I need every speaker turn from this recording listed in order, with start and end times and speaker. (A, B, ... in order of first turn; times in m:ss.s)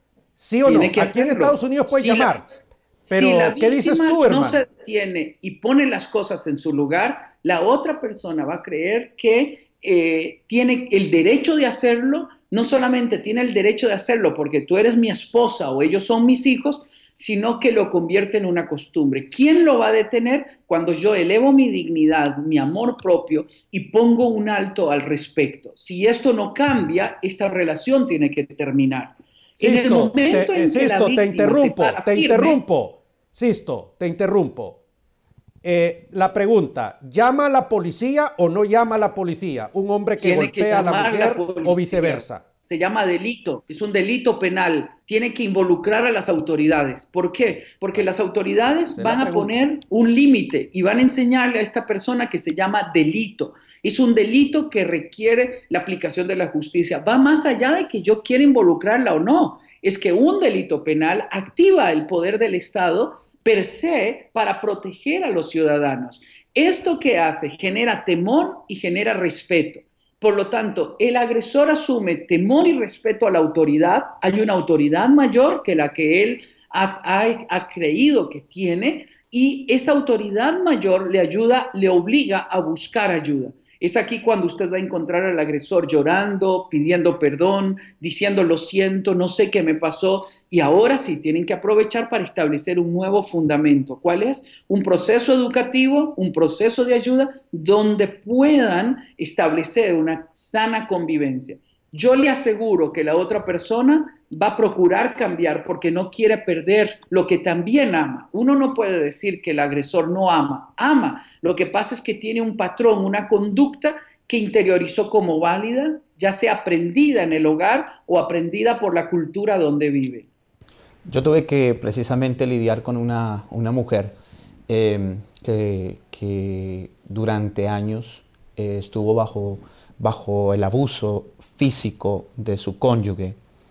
0:00.4-0:02.5 A
0:00.6-0:32.6 B
0:03.1-0:04.6 A
0:29.6-0:34.8 A
0:35.6-0:42.4 A
0:40.2-2:00.3 B
0:48.9-0:49.5 A
2:01.0-2:04.1 C
2:04.7-2:13.4 C